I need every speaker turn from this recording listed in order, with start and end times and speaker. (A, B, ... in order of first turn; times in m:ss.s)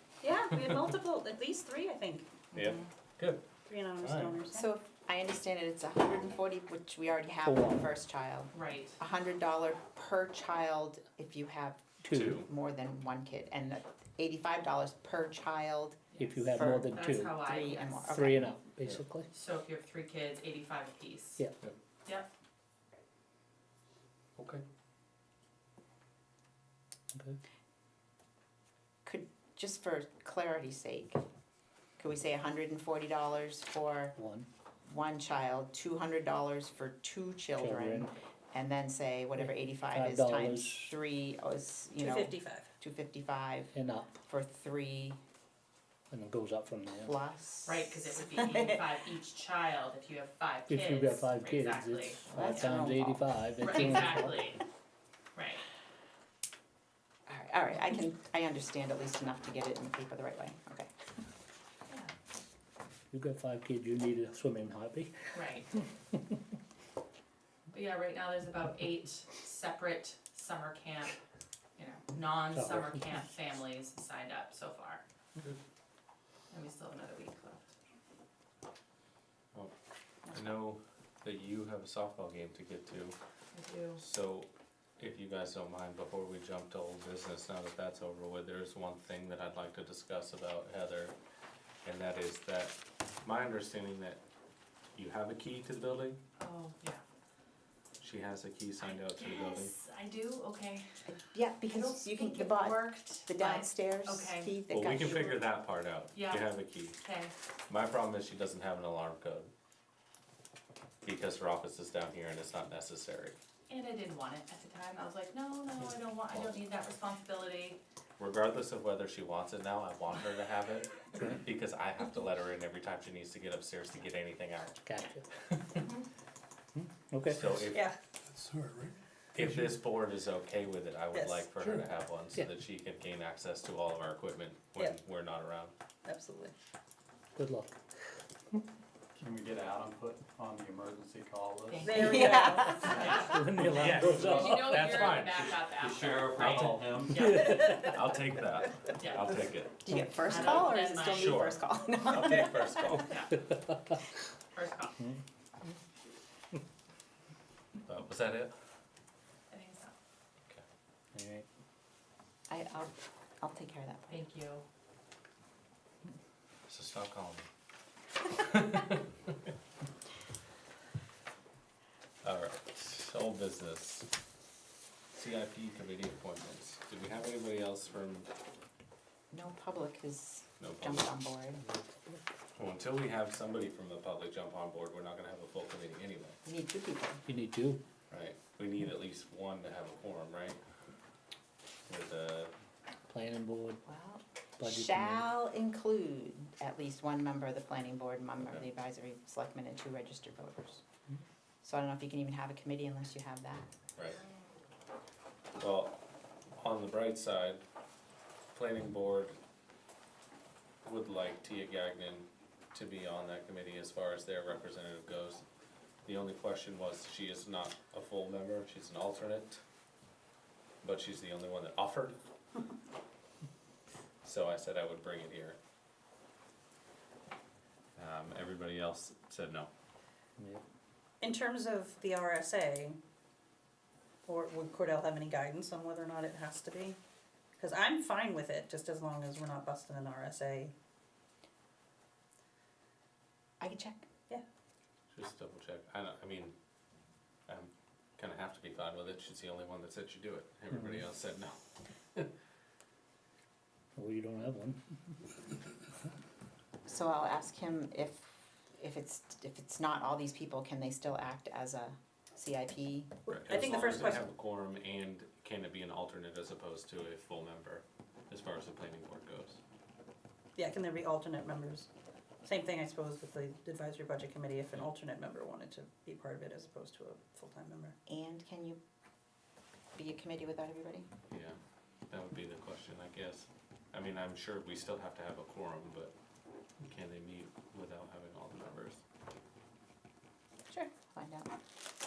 0:00.2-0:02.3 A
0:00.5-0:00.8 B
0:02.5-0:03.4 B
0:03.7-0:04.7 A
0:04.0-0:04.4 B
0:04.5-0:16.0 C
0:07.4-0:07.8 D
0:08.5-0:09.0 E
0:12.0-0:12.5 D
0:12.1-0:12.5 B
0:16.1-0:18.1 E
0:16.2-0:17.4 D
0:16.5-0:16.9 C
0:17.4-0:18.4 C
0:18.1-0:19.3 D
0:19.3-0:21.4 E
0:24.4-0:24.6 B
0:29.0-0:31.2 C
0:32.0-0:34.1 C
0:34.2-0:34.5 D
0:34.9-0:43.7 C
0:37.6-0:38.1 D
0:39.4-0:41.0 D
0:42.0-0:42.7 A
0:43.7-0:44.2 D
0:44.3-0:45.2 C
0:46.1-0:47.1 D
0:47.0-0:48.8 C
0:47.7-0:52.6 E
0:50.7-0:54.5 D
0:52.3-0:53.3 C
0:53.6-0:54.6 E
0:55.3-0:55.6 E
0:57.3-1:00.9 C
1:03.1-1:05.1 D
1:05.3-1:05.7 E
1:07.7-1:11.1 E
1:11.8-1:15.0 E
1:12.5-1:13.0 D
1:16.5-1:17.7 E
1:20.3-1:20.6 C
1:20.3-1:23.2 B
1:23.6-1:24.0 E
1:24.0-1:24.5 B
1:25.0-1:31.1 B
1:31.8-1:34.2 B
1:35.0-1:36.2 B
1:36.4-1:37.0 E
1:38.0-1:39.7 B
1:38.8-1:41.1 E
1:41.0-1:45.4 C
1:41.7-1:44.5 E
1:44.7-1:47.0 B
1:46.1-1:46.5 E
1:47.0-1:47.3 E
1:47.7-1:49.5 B
1:51.0-1:53.4 B
1:53.7-1:57.8 E
1:56.3-1:56.6 B
1:58.2-2:04.8 B
2:04.8-2:05.2 D
2:05.8-2:06.0 E
2:06.8-2:07.7 D
2:07.3-2:07.8 B
2:08.4-2:08.9 F
2:09.3-2:15.7 B
2:11.1-2:11.4 A
2:16.0-2:16.5 A
2:17.4-2:17.8 D
2:19.2-2:22.3 F
2:21.7-2:23.3 E
2:21.8-2:23.0 A
2:22.0-2:23.0 C
2:22.6-2:24.9 D
2:22.9-2:27.3 F
2:23.7-2:25.6 B
2:24.2-2:27.7 E
2:26.3-2:26.9 B
2:27.1-2:27.9 D
2:27.8-2:29.8 B
2:29.0-2:29.4 E
2:29.8-2:33.0 C
2:30.2-2:31.6 E
2:31.1-2:33.2 B
2:33.0-2:33.3 E
2:34.6-2:35.0 E
2:37.8-2:38.5 B
2:39.5-2:39.9 E
2:41.1-2:41.5 D
2:42.5-2:44.2 C
2:44.1-2:44.6 E
2:46.7-2:47.5 B
2:48.2-2:49.0 B
2:52.2-2:54.1 B
2:55.1-2:58.3 B
2:59.3-3:01.6 C
3:00.6-3:01.1 B
3:02.6-3:06.4 B
3:06.4-3:07.2 C
3:07.3-3:07.8 D
3:08.1-3:10.6 B
3:11.9-3:12.5 B
3:13.1-3:13.8 D
3:13.9-3:20.8 C
3:14.6-3:15.2 D
3:21.6-3:23.6 C
3:25.6-3:26.0 B
3:26.6-3:27.6 B
3:28.5-3:29.3 B
3:30.8-3:35.4 B
3:36.0-3:39.6 B
3:40.8-3:42.2 B
3:44.2-3:45.6 B
3:48.0-3:49.7 B
3:51.2-3:53.0 A
3:54.2-3:57.0 A
3:57.6-4:00.7 A
4:03.6-4:04.1 C
4:05.1-4:06.5 B
4:07.5-4:11.6 B
4:10.7-4:11.0 D
4:14.0-4:14.8 D
4:16.9-4:23.1 C
4:23.3-4:24.2 A
4:23.3-4:29.6 B
4:30.6-4:31.9 A
4:32.4-4:38.0 A
4:38.1-4:38.8 C
4:40.0-4:41.1 C
4:41.3-4:41.6 B
4:42.1-4:46.1 B
4:46.8-4:49.0 B
4:50.7-4:51.5 C